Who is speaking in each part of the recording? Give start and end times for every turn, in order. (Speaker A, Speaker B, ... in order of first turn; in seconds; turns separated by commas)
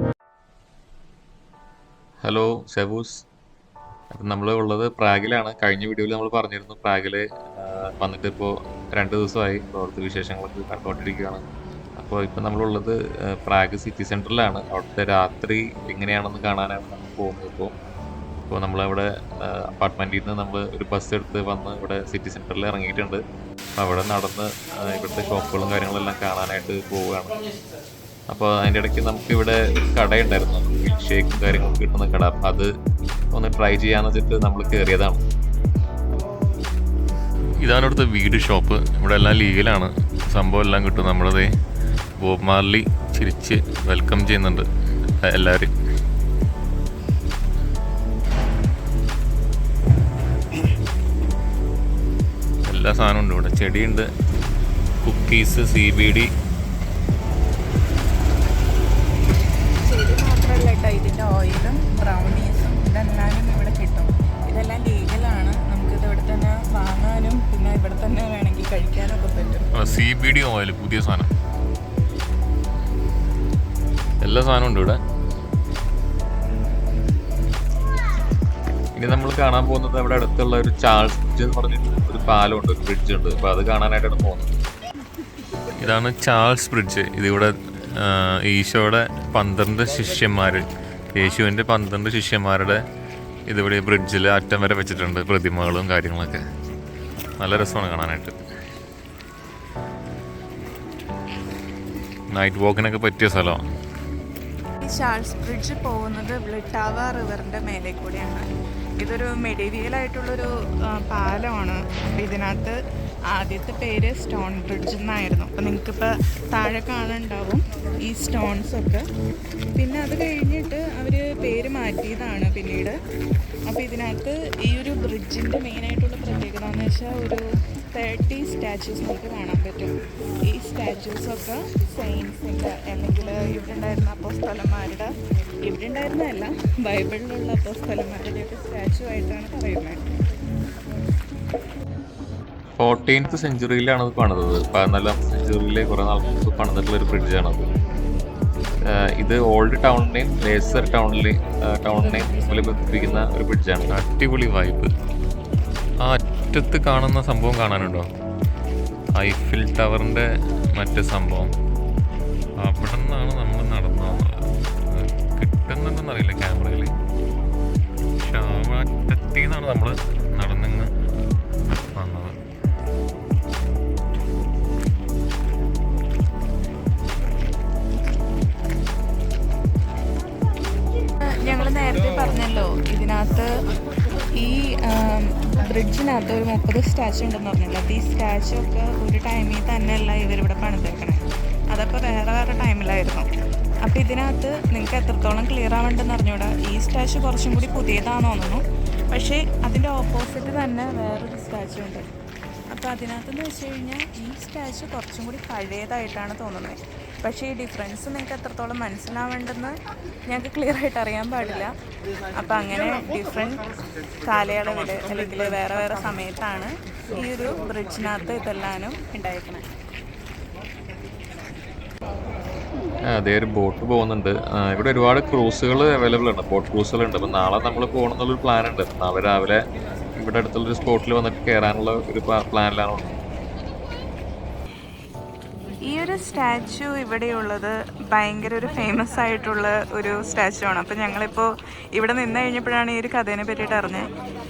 Speaker A: 2.2-3.2, Speaker A: 4.1-11.4, Speaker A: 12.0-17.7, Speaker A: 18.5-23.2, Speaker A: 23.8-27.4, Speaker A: 28.3-32.7, Speaker A: 33.3-35.2, Speaker B: 37.6-41.5, Speaker B: 42.2-44.6, Speaker B: 45.2-45.7, Speaker B: 52.7-54.1, Speaker B: 55.0-56.3, Speaker C: 59.8-69.6, Speaker B: 69.8-71.3, Speaker B: 74.2-75.0, Speaker A: 79.0-84.5, Speaker B: 85.8-90.6, Speaker B: 91.1-92.8, Speaker B: 93.5-96.4, Speaker B: 97.4-98.3, Speaker B: 102.3-103.6, Speaker C: 104.8-108.4, Speaker C: 109.0-112.7, Speaker C: 113.3-119.0, Speaker C: 119.8-123.0, Speaker C: 123.7-129.9, Speaker C: 130.5-135.1, Speaker C: 135.7-140.0, Speaker A: 142.8-147.7, Speaker A: 148.9-154.0, Speaker B: 153.9-154.9, Speaker B: 156.0-158.1, Speaker B: 159.2-160.2, Speaker B: 160.8-161.5, Speaker B: 162.6-166.9, Speaker B: 168.2-170.9, Speaker B: 172.0-172.3, Speaker C: 181.4-183.5, Speaker C: 184.4-191.2, Speaker C: 191.7-193.3, Speaker C: 193.9-202.0, Speaker C: 202.7-209.7, Speaker C: 210.3-211.7, Speaker C: 212.3-213.6, Speaker C: 214.2-219.6, Speaker A: 223.1-229.6, Speaker A: 230.2-233.1, Speaker C: 235.8-244.1